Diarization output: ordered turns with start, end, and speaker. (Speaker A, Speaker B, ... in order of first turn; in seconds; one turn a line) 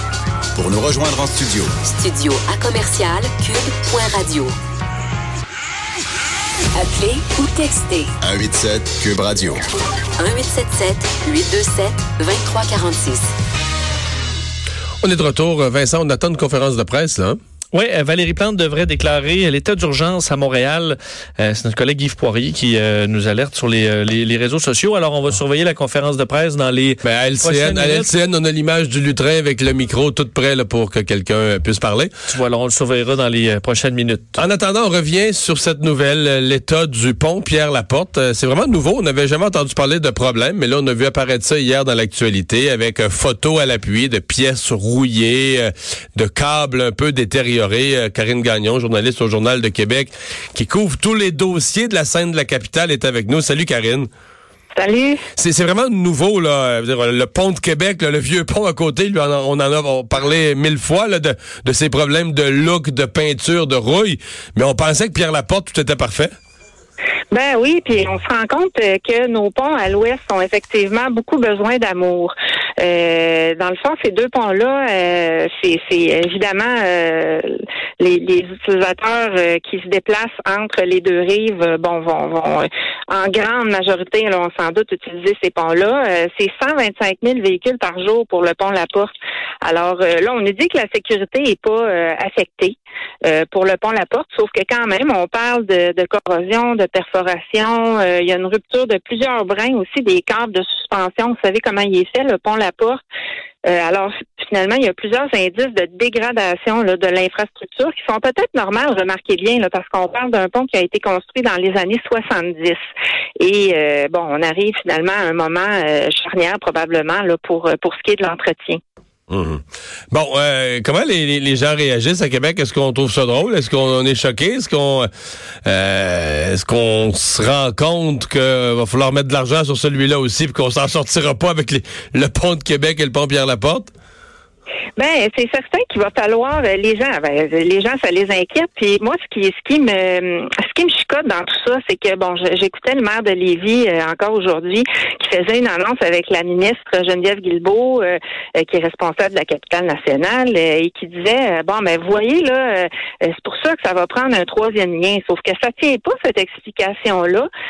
Speaker A: 0.5-1.7
Speaker B: 1.8-4.5
Speaker B: 6.7-8.1
Speaker A: 8.2-9.6
Speaker B: 10.2-13.3
Speaker C: 15.0-17.4
Speaker D: 17.7-28.1
Speaker C: 27.0-32.1
Speaker D: 32.3-34.4
Speaker C: 34.4-54.1
Speaker E: 54.7-55.2
Speaker C: 55.4-66.3
Speaker E: 67.3-103.0
Speaker E: 103.7-112.8
Speaker E: 113.4-118.8
Speaker C: 119.3-125.1
Speaker C: 125.7-133.9
Speaker E: 135.0-157.5